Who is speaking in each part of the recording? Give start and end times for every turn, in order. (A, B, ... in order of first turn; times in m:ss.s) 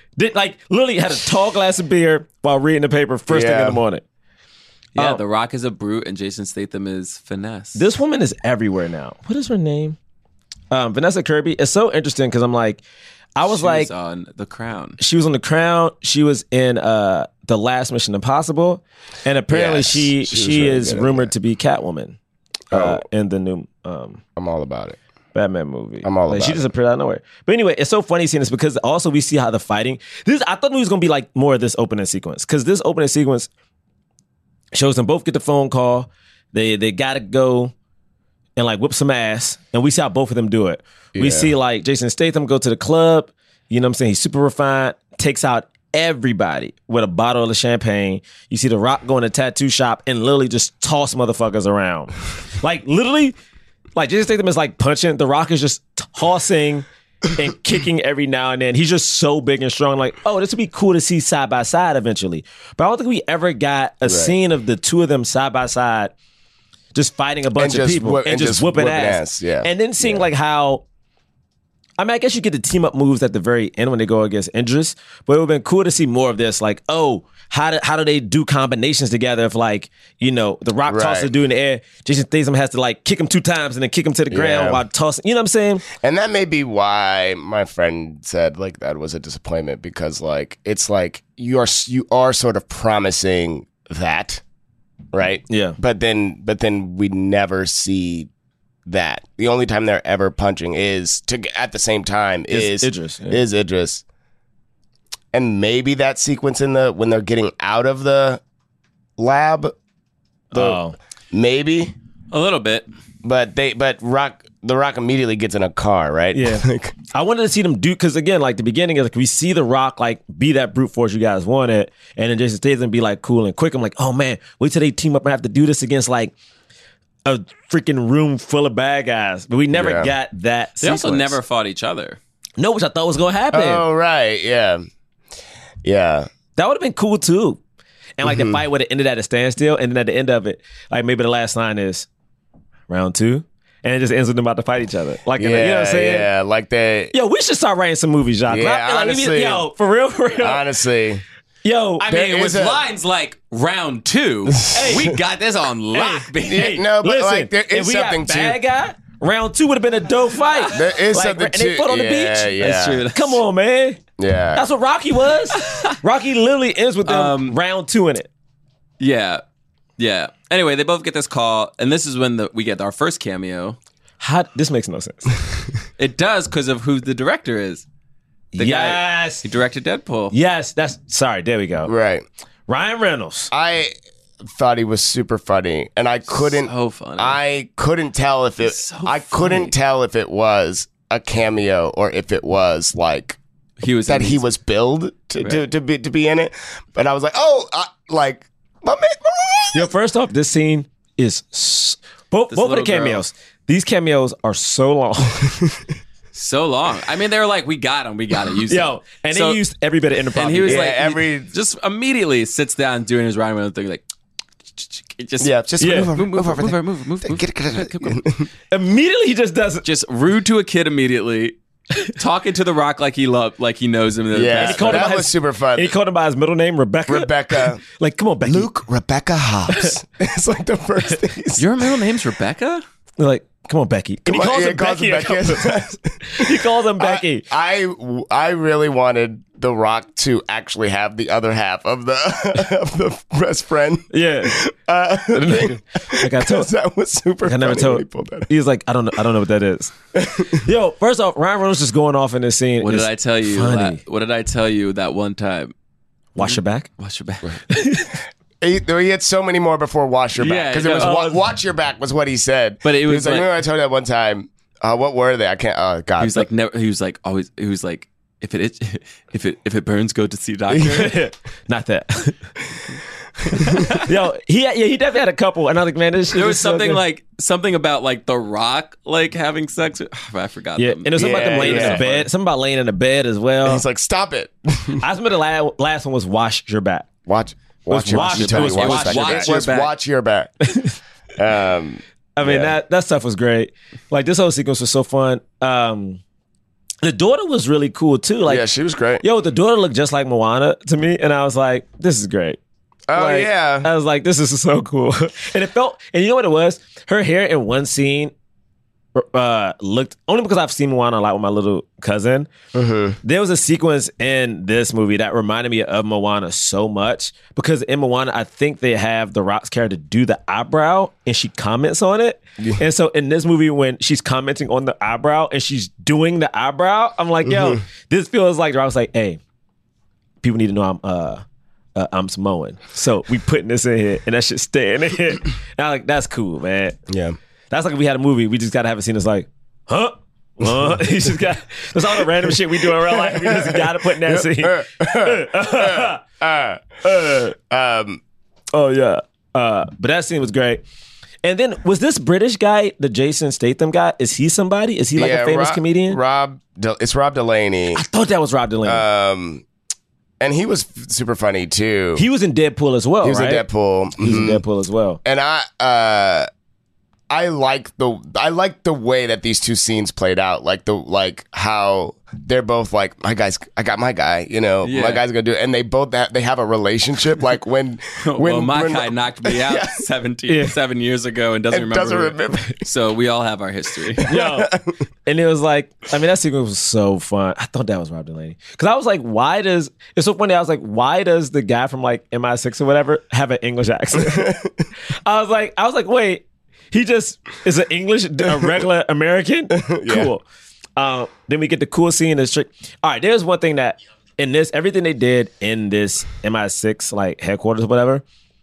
0:00.2-0:04.0 A
0:03.3-0:03.8 B
0:05.0-0:07.8 C
0:05.0-0:05.2 A
0:07.8-0:10.0 A
0:10.7-0:12.8 A
0:13.4-0:13.9 A
0:13.5-0:15.0 C
0:15.0-0:22.2 A
0:19.5-0:21.3 B
0:22.7-0:24.2 A
0:22.7-0:23.0 B
0:24.4-0:25.0 B
0:25.3-0:33.5 A
0:26.0-0:26.6 B
0:34.7-0:37.7 A
0:38.6-0:53.4 A
0:41.2-0:41.5 B
0:54.0-1:06.1 A
1:04.0-1:04.3 B
1:07.0-1:10.8 A
1:07.6-1:10.2 B
1:12.0-1:25.8 A
1:20.9-1:21.3 B
1:24.3-1:24.8 B
1:25.9-1:34.4 B
1:35.1-1:38.3 B
1:35.5-1:35.8 A
1:38.9-1:44.0 B
1:42.5-1:43.4 A
1:45.3-1:48.4 B
1:49.2-1:49.8 B
1:50.5-1:51.0 A
1:50.5-1:50.8 B
1:51.3-1:51.9 B
1:52.3-1:52.9 C
1:53.2-1:57.0 B
1:56.3-2:06.3 A
2:07.2-2:11.4 A
2:09.7-2:10.1 B
2:10.8-2:12.2 C
2:12.6-2:13.8 A
2:13.5-2:14.9 B
2:15.8-2:16.3 B
2:16.6-2:17.6 A
2:18.2-2:22.1 A
2:18.2-2:18.6 B
2:22.9-2:26.3 A
2:25.4-2:27.1 B
2:27.1-2:30.6 A
2:28.5-2:29.7 B
2:30.4-2:31.2 B
2:31.6-2:32.0 A
2:32.0-2:36.8 C
2:32.1-2:32.8 B
2:34.8-2:35.1 B
2:36.0-2:44.0 A
2:36.4-2:38.6 B
2:40.7-2:43.0 B
2:42.6-2:43.4 C
2:44.2-2:44.6 B
2:44.6-2:48.3 A
2:45.5-2:46.0 C
2:47.0-2:47.6 C
2:49.0-2:49.4 C
2:50.0-2:53.8 C
2:54.2-2:55.3 A
2:56.0-2:57.8 C
2:58.5-2:59.4 A
2:58.6-3:00.3 C
3:00.3-3:01.9 A
3:01.9-3:02.2 B
3:02.7-3:03.5 A
3:03.5-3:03.9 B
3:04.5-3:13.4 B
3:06.4-3:07.4 C
3:08.6-3:09.7 C
3:13.8-3:14.4 C
3:14.1-3:19.9 B
3:19.7-3:25.6 A
3:22.5-3:23.2 C
3:26.3-3:29.6 C
3:28.7-3:30.9 A
3:30.4-3:34.0 C
3:30.6-3:31.5 B
3:34.8-3:38.2 C
3:35.4-3:38.5 B
3:35.8-3:36.1 A
3:38.7-3:39.8 A
3:39.8-3:41.6 C
3:42.2-3:45.1 C
3:44.3-3:46.0 B
3:44.6-3:48.7 A
3:47.1-3:47.8 B
3:48.4-3:51.7 B
3:51.6-3:52.8 C
3:53.2-3:57.4 A
3:54.3-4:08.5 B
4:04.1-4:04.6 A
4:05.3-4:06.7 A
4:07.5-4:10.0 A
4:10.2-4:10.6 B
4:10.5-4:14.0 A
4:12.8-4:15.7 C
4:16.4-4:16.9 A
4:16.4-4:17.6 C
4:17.7-4:18.2 A
4:18.6-4:26.5 B
4:20.4-4:21.3 C
4:21.0-4:21.4 A
4:22.8-4:23.5 C
4:26.2-4:31.2 C
4:30.8-4:32.5 A
4:33.6-4:34.0 C
4:33.7-4:37.0 A
4:36.3-4:42.3 C
4:40.8-4:43.8 A
4:41.2-4:42.0 B
4:43.6-4:45.0 B
4:45.0-4:47.1 A
4:47.3-4:50.5 B
4:47.9-4:49.6 A
4:48.1-4:49.9 C
4:51.4-4:52.7 B
4:52.4-4:56.2 A
4:57.0-4:58.6 A
4:58.5-4:59.2 B
4:59.2-5:02.6 A
5:03.1-5:03.9 B
5:03.1-5:08.3 A
5:09.2-5:12.5 A
5:12.7-5:13.2 B
5:13.2-5:29.4 A
5:27.5-5:27.8 B
5:30.4-5:31.4 A
5:32.0-5:37.0 A
5:37.1-5:37.4 B
5:37.7-5:46.2 A
5:42.5-5:47.0 B
5:47.0-5:47.5 A
5:47.5-5:48.2 B
5:48.7-5:50.8 A
5:51.4-5:56.2 A
5:55.2-5:58.0 B
5:57.9-5:59.0 A
5:58.8-5:59.6 B
6:00.4-6:02.2 B
6:02.2-6:03.6 A
6:03.2-6:04.6 B
6:04.2-6:05.2 A
6:05.2-6:06.5 B
6:07.3-6:20.0 B
6:14.8-6:15.2 C
6:18.2-6:24.3 C
6:20.5-6:20.7 A
6:21.7-6:22.8 B
6:24.2-6:24.9 B
6:24.3-6:24.7 A
6:25.3-6:34.6 A
6:34.1-6:34.8 B
6:35.3-6:40.4 A
6:39.8-6:40.3 B
6:41.0-6:48.2 A